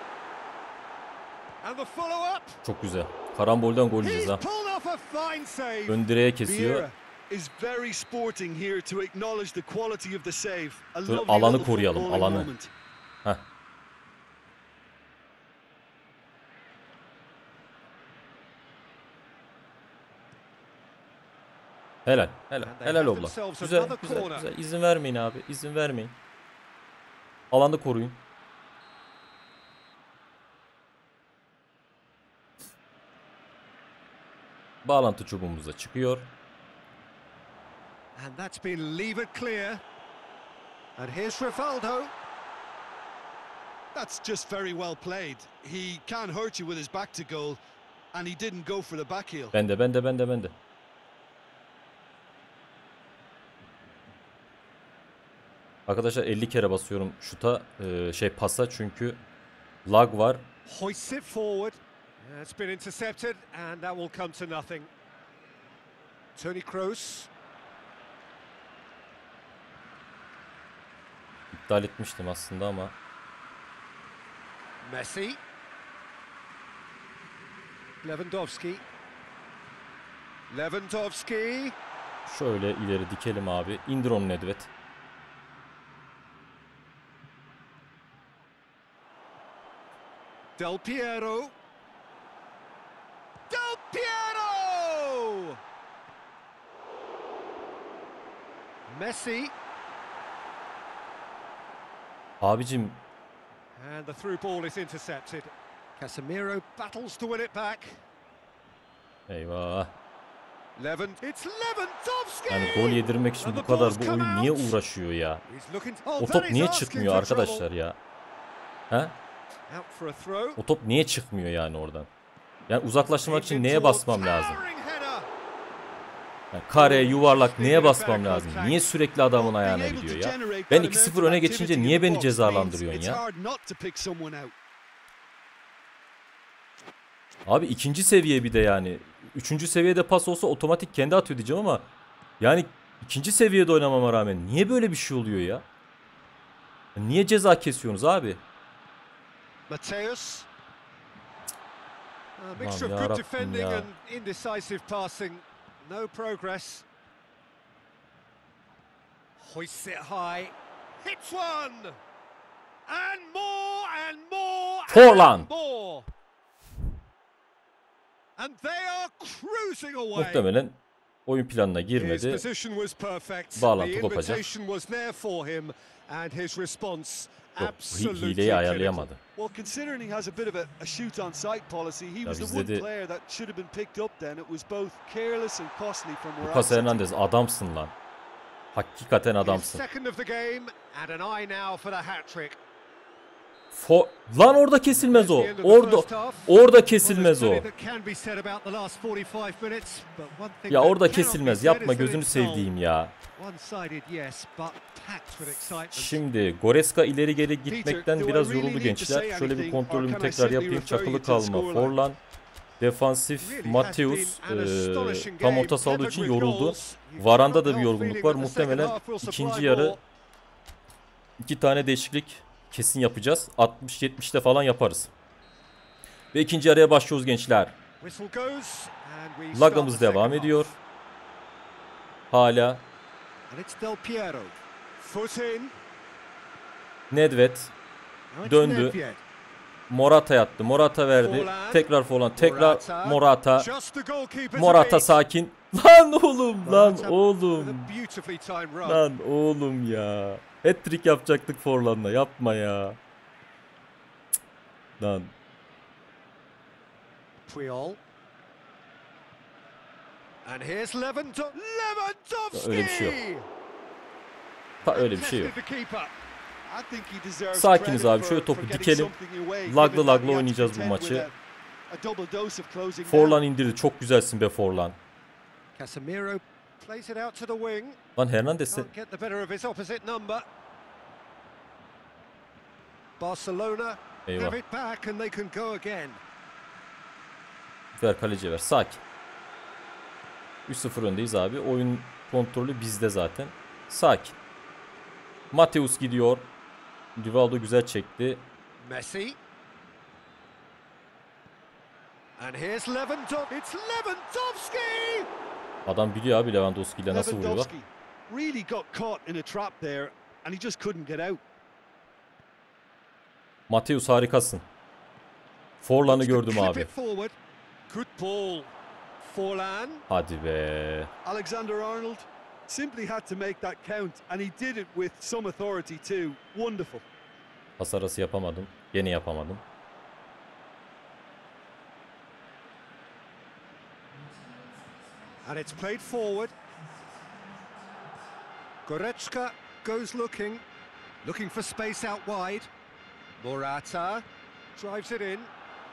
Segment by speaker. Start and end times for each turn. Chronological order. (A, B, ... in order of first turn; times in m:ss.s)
0:01.6-0:02.6 A
0:02.6-0:04.4 B
0:04.0-0:07.0 A
0:05.9-0:06.9 B
0:07.3-0:12.7 C
0:11.1-0:12.5 B
0:22.1-0:26.2 B
0:22.6-0:24.5 A
0:27.5-0:28.2 B
0:34.8-0:36.3 B
0:38.2-0:39.8 A
0:41.0-0:42.1 A
0:43.9-0:47.6 C
0:48.1-0:49.5 C
0:49.5-0:50.6 B
0:55.9-0:59.2 B
0:59.8-1:00.5 B
1:00.7-1:04.9 A
1:06.4-1:07.3 A
1:11.5-1:13.0 B
1:14.8-1:15.4 A
1:18.0-1:18.8 A
1:20.5-1:21.8 A
1:22.3-1:24.7 B
1:30.6-1:31.5 A
1:33.5-1:35.6 A
1:38.9-1:39.5 A
1:42.4-1:43.0 B
1:43.8-1:48.0 A
1:49.3-1:49.9 B
1:50.8-1:54.8 A
1:52.5-1:55.4 B
1:55.4-1:57.7 A
1:56.2-1:58.0 B
1:58.9-1:59.2 B
1:59.7-2:00.6 A
2:00.6-2:02.1 B
2:02.7-2:04.6 B
2:03.2-2:05.3 A
2:06.5-2:13.2 B
2:06.8-2:09.0 A
2:09.4-2:14.5 C
2:17.5-2:25.6 B
2:27.0-2:28.4 B
2:29.7-2:30.5 A
2:32.4-2:36.9 A
2:32.6-2:33.9 B
2:39.4-2:42.0 A
2:42.9-2:46.1 A
2:44.9-2:45.5 B
2:48.4-2:50.5 A
2:50.2-2:52.4 B
2:51.9-2:59.1 A
2:53.6-2:54.5 B
2:57.6-2:59.2 B
2:59.4-3:07.1 C
3:02.2-3:02.9 B
3:06.4-3:07.9 B
3:08.7-3:09.8 B
3:09.4-3:12.6 A
3:13.7-3:17.7 B
3:14.9-3:22.7 A
3:20.7-3:23.2 B
3:23.4-3:26.2 A
3:25.9-3:32.2 B
3:27.7-3:32.0 C
3:32.8-3:40.0 B
3:33.4-3:40.0 A
3:41.4-3:45.1 B
3:46.3-3:47.8 B
3:48.0-3:50.8 A
3:49.5-3:50.7 B
3:52.3-3:52.8 B
3:53.5-3:55.8 A
3:57.1-3:57.7 B
3:58.3-3:59.2 A
3:58.4-3:59.0 B
3:59.9-4:03.7 B
4:01.2-4:05.2 A
4:04.5-4:07.9 B
4:06.6-4:09.0 A
4:08.8-4:13.0 B
4:15.0-4:15.3 B
4:17.5-4:18.0 A
4:20.4-4:23.5 A
4:22.5-4:23.2 B
4:24.8-4:26.1 A
4:24.8-4:25.6 B
4:26.6-4:31.4 C
4:27.5-4:29.2 B
4:29.7-4:31.3 B
4:31.9-4:33.4 C
4:33.0-4:35.0 B
4:35.8-4:38.0 A
4:38.2-4:38.9 B
4:38.7-4:40.4 A
4:43.2-4:46.2 A
4:44.3-4:44.6 B
4:48.0-4:49.0 B
4:50.7-4:54.4 B
4:55.5-4:56.5 B
4:57.2-4:58.4 B
4:58.8-4:59.4 A
5:02.4-5:05.3 A
5:05.9-5:07.7 B
5:07.1-5:11.4 C
5:13.7-5:14.7 B
5:15.8-5:16.9 B
5:16.0-5:17.4 A
5:17.9-5:20.0 A
5:20.1-5:21.1 B
5:21.2-5:27.1 C
5:27.8-5:29.6 B
5:35.4-5:36.5 A
5:38.9-5:40.6 A
5:41.2-5:42.7 A
5:43.4-5:44.2 A
5:44.8-5:45.5 A